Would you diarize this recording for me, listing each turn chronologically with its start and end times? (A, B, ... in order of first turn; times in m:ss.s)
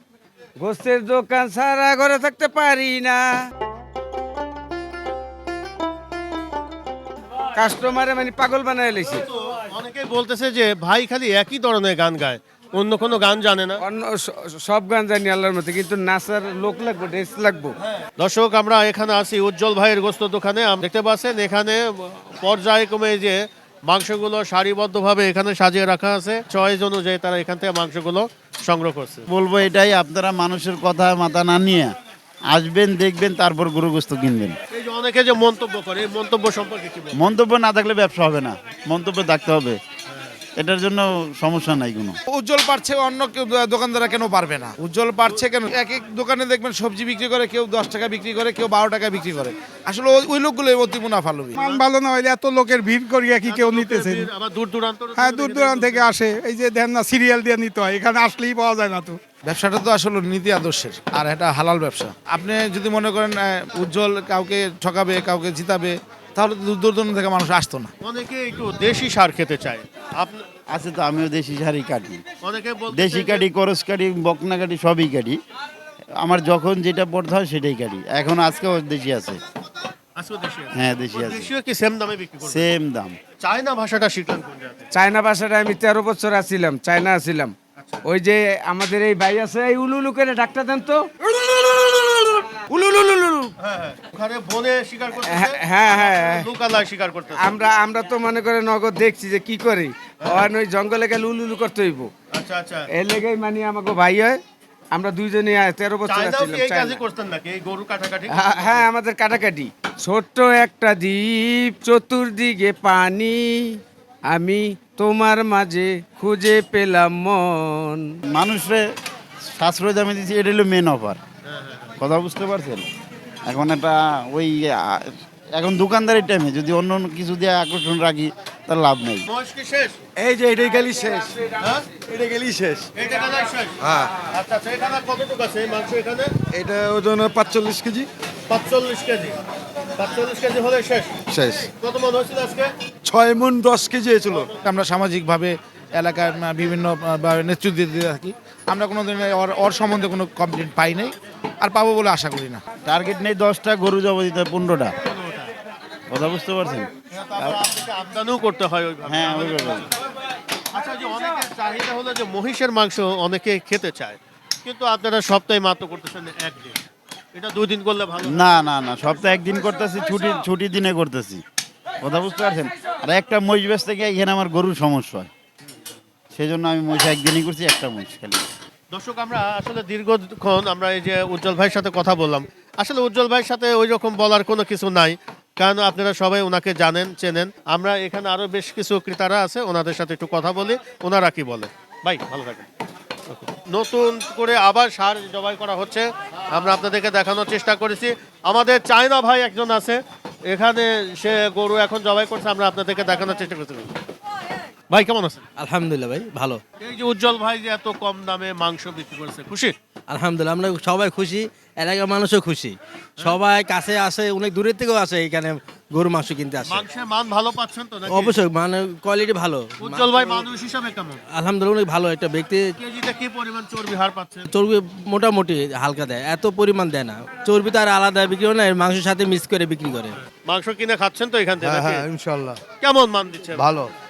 0:00.6-0:03.2 A
0:07.6-0:09.2 A
0:09.1-0:13.8 B
0:13.8-0:17.8 A
0:18.2-0:29.3 B
0:29.4-0:31.8 C
0:29.4-0:31.9 D
0:32.5-0:34.5 C
0:33.0-0:34.5 D
0:34.7-0:37.3 B
0:37.5-0:38.4 C
0:37.5-0:39.8 D
0:39.1-0:39.7 C
0:40.6-0:42.1 C
0:40.9-0:42.1 D
0:42.3-0:51.8 E
0:51.8-0:54.2 F
0:53.4-0:56.1 B
0:55.2-0:59.2 F
0:59.4-1:07.9 E
1:08.0-1:10.4 B
1:10.8-1:12.2 D
1:10.8-1:12.1 C
1:12.4-1:13.5 B
1:13.5-1:15.3 C
1:13.9-1:15.4 D
1:16.2-1:19.4 C
1:16.6-1:17.3 D
1:20.2-1:22.7 B
1:22.9-1:23.1 D
1:23.4-1:24.9 B
1:24.9-1:27.5 A
1:27.8-1:28.0 B
1:28.0-1:31.1 A
1:31.7-1:33.5 A
1:33.6-1:37.6 B
1:35.3-1:36.4 A
1:37.4-1:42.1 A
1:42.3-1:42.9 B
1:42.9-1:44.4 A
1:44.9-1:47.0 A
1:46.1-1:48.8 B
1:48.3-1:53.8 A
1:54.3-1:58.1 A
1:58.3-1:58.7 C
1:59.6-2:01.2 C
2:00.2-2:01.2 D
2:01.5-2:01.9 B
2:02.0-2:02.8 C
2:02.2-2:02.9 D
2:03.5-2:05.0 C
2:05.6-2:09.2 C
2:07.2-2:08.3 D
2:09.3-2:10.0 B
2:10.2-2:11.4 D
2:11.6-2:11.9 B
2:12.1-2:12.9 D
2:13.0-2:13.8 B
2:13.8-2:14.1 D
2:14.3-2:16.3 B
2:16.5-2:18.1 D
2:18.5-2:19.4 B
2:20.0-2:21.2 B
2:21.3-2:21.6 D
2:21.8-2:22.7 B
2:23.0-2:24.5 D
2:24.6-2:32.6 E
2:32.9-2:34.9 D
2:32.9-2:34.8 C
2:35.0-2:35.5 B
2:36.2-2:36.7 C
2:36.2-2:36.9 D
2:37.1-2:39.9 B
2:40.7-2:46.8 B
2:47.3-2:49.7 B
2:48.8-2:51.3 C
2:49.1-2:51.4 D
2:52.1-2:55.2 C
2:52.2-2:52.7 D
2:53.4-2:55.3 D
2:56.4-2:58.3 C
2:56.9-2:58.5 D
2:58.9-3:12.7 B
3:13.3-3:23.9 B
3:24.9-3:25.4 B
3:25.6-3:26.6 G
3:26.8-3:29.7 B
3:30.1-3:36.8 G
3:36.6-3:38.4 B
3:38.1-3:40.4 G
3:39.8-3:41.2 B
3:41.3-3:42.7 G
3:42.8-3:44.5 B
3:44.5-3:50.2 G
3:50.4-3:52.1 B
3:51.6-3:52.6 F
3:52.8-3:53.7 B
3:53.6-3:53.9 F